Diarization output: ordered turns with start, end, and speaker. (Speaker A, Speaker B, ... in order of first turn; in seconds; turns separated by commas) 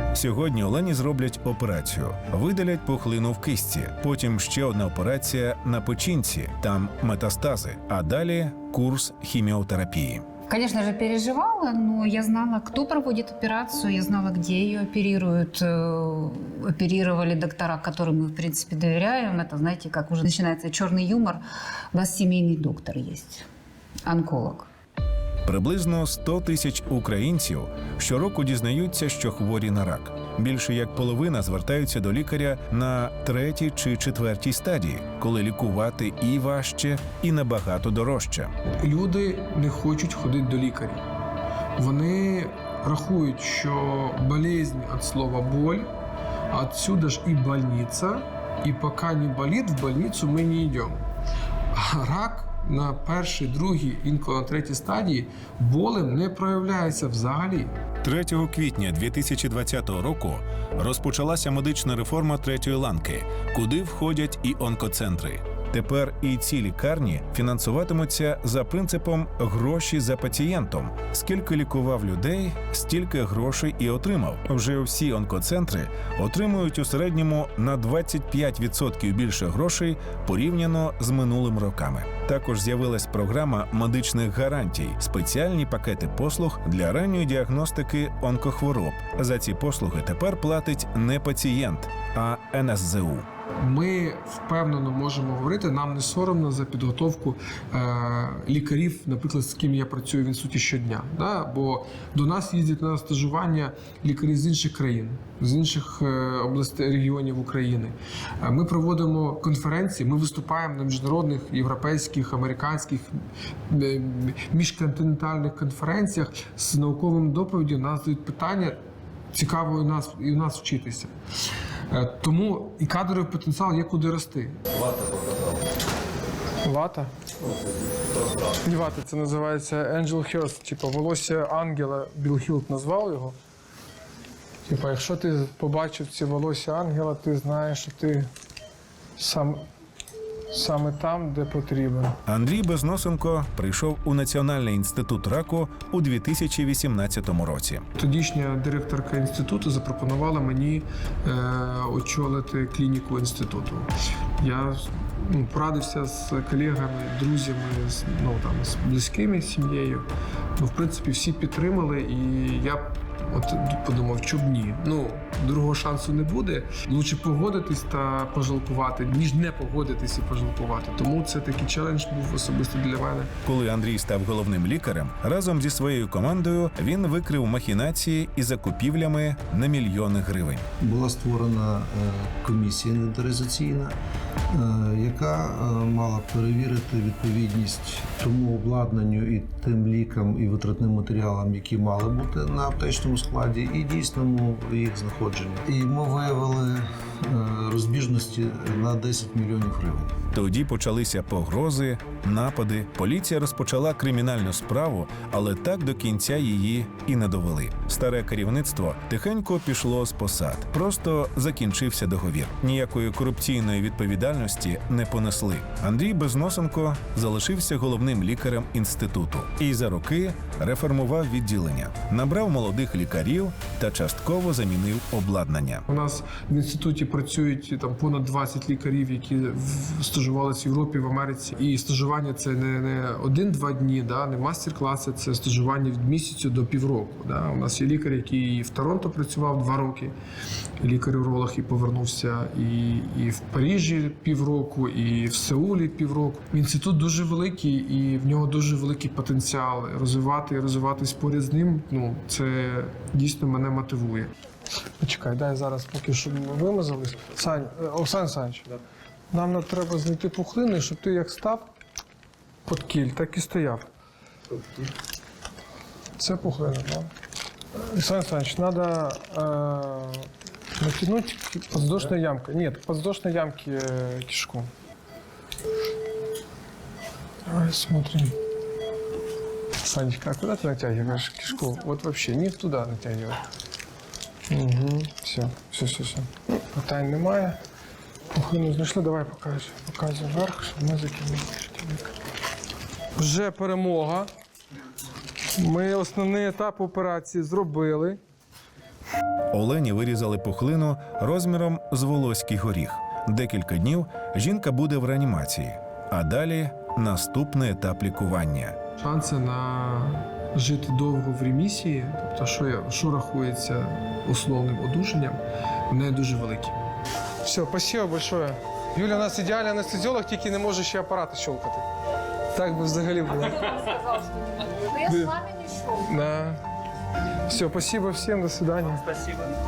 Speaker A: 0.1-10.3, Speaker B: 10.5-21.4, Speaker B: 21.9-23.4, Speaker B: 24.1-24.7, Speaker A: 25.4-38.5, Speaker C: 38.8-41.0, Speaker C: 41.8-45.9, Speaker C: 46.5-51.0, Speaker C: 51.7-57.7, Speaker A: 58.0-93.3, Speaker C: 93.6-113.1, Speaker C: 113.7-118.8, Speaker C: 119.3-121.1, Speaker C: 121.9-124.6, Speaker C: 126.6-127.1, Speaker C: 128.6-133.3, Speaker C: 134.7-138.3, Speaker C: 139.2-139.6, Speaker C: 140.5-142.1, Speaker A: 142.2-147.8, Speaker C: 148.0-173.3, Speaker A: 173.4-180.7, Speaker D: 180.8-183.9, Speaker D: 184.5-200.1, Speaker A: 200.3-225.8, Speaker C: 225.9-240.1, Speaker C: 240.8-254.3, Speaker C: 255.0-258.7, Speaker C: 259.3-261.7, Speaker C: 262.6-263.9, Speaker C: 266.2-267.1, Speaker C: 267.7-274.7, Speaker C: 277.5-278.4, Speaker C: 279.8-283.4, Speaker C: 284.5-287.6, Speaker C: 288.3-292.0, Speaker C: 293.2-294.3, Speaker C: 295.6-298.2, Speaker A: 299.5-308.8, Speaker C: 309.0-316.8, Speaker C: 317.4-321.8, Speaker C: 322.5-324.0, Speaker C: 324.9-326.6, Speaker C: 327.5-329.1